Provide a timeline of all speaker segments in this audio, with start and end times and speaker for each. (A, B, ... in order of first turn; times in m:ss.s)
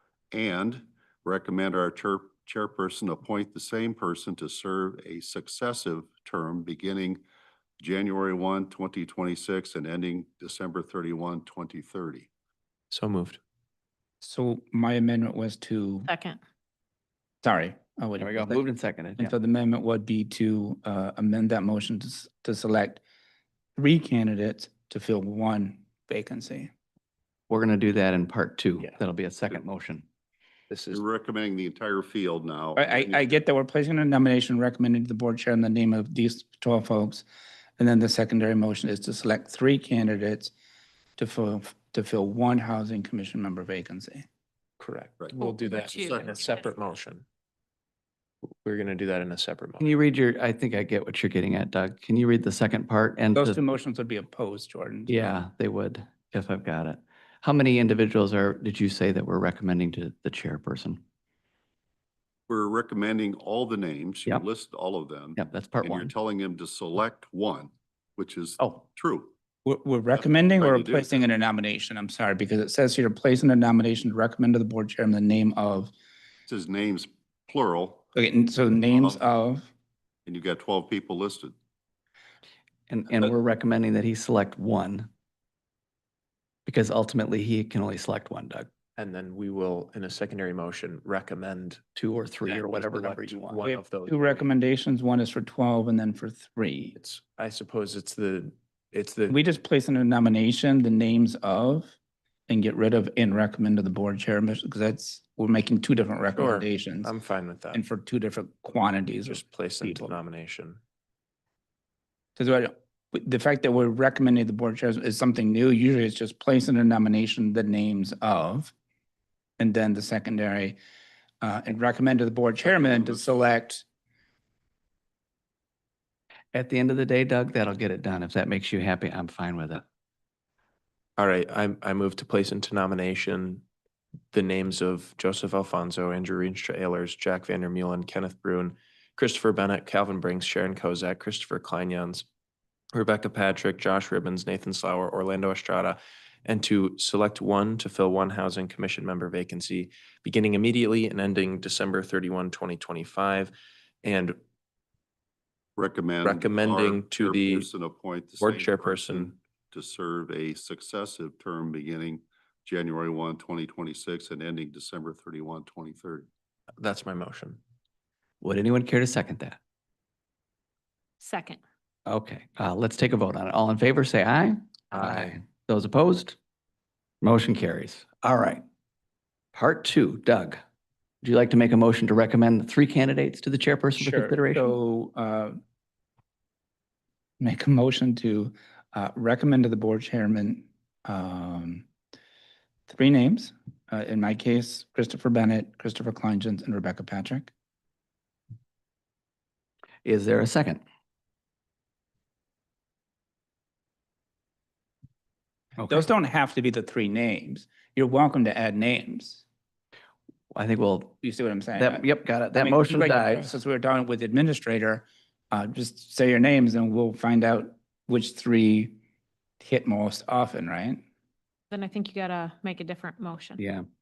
0:00.3-0:07.2 A
0:07.8-0:12.3 A
0:12.9-0:13.4 B
0:14.2-0:16.1 C
0:16.1-0:16.4 D
0:17.4-0:18.6 C
0:18.2-0:19.3 E
0:19.2-0:23.0 C
0:23.8-0:26.7 C
0:27.5-0:30.0 E
0:30.7-0:31.0 B
0:30.9-0:33.4 A
0:32.8-0:37.3 C
0:37.8-0:40.5 C
0:41.2-0:44.3 C
0:44.8-0:47.2 B
0:45.2-0:46.6 A
0:45.3-0:46.7 D
0:48.6-0:49.9 B
0:49.8-0:53.6 E
0:53.4-0:55.2 C
0:55.1-1:01.0 E
1:02.5-1:09.3 A
1:05.4-1:06.1 E
1:09.6-1:15.9 C
1:10.1-1:11.2 A
1:16.5-1:18.1 A
1:18.2-1:19.7 C
1:18.9-1:19.3 A
1:20.3-1:21.6 A
1:22.9-1:25.1 E
1:26.7-1:28.7 E
1:29.0-1:31.8 B
1:32.0-1:33.6 E
1:32.4-1:34.5 B
1:33.6-1:37.0 C
1:37.0-1:39.4 B
1:39.3-1:42.0 C
1:42.5-1:47.1 C
1:46.4-1:47.8 B
1:47.7-1:50.2 C
1:49.2-1:50.8 B
1:52.4-1:58.7 C
1:59.6-2:00.8 C
2:01.4-2:03.8 C
2:06.5-2:09.8 E
2:11.2-2:13.6 B
2:14.3-2:22.3 B
2:22.9-2:33.5 B
2:34.0-2:34.4 B
2:35.8-2:46.3 A
2:36.2-2:37.7 B
2:38.4-2:39.3 B
2:46.8-2:47.6 B
2:48.4-2:49.6 E
2:51.2-2:51.6 D
2:52.1-2:56.4 E
2:57.2-2:58.6 E
2:59.5-3:00.6 E
3:01.2-3:04.8 E
3:04.0-3:05.6 C
3:07.4-3:11.9 C
3:12.9-3:17.5 C
3:20.0-3:20.8 E
3:25.8-3:29.4 C
3:30.5-3:31.2 E
3:31.2-3:39.0 C
3:31.8-3:33.5 E
3:39.6-3:41.0 C
3:41.7-3:43.6 D
3:43.6-3:43.8 E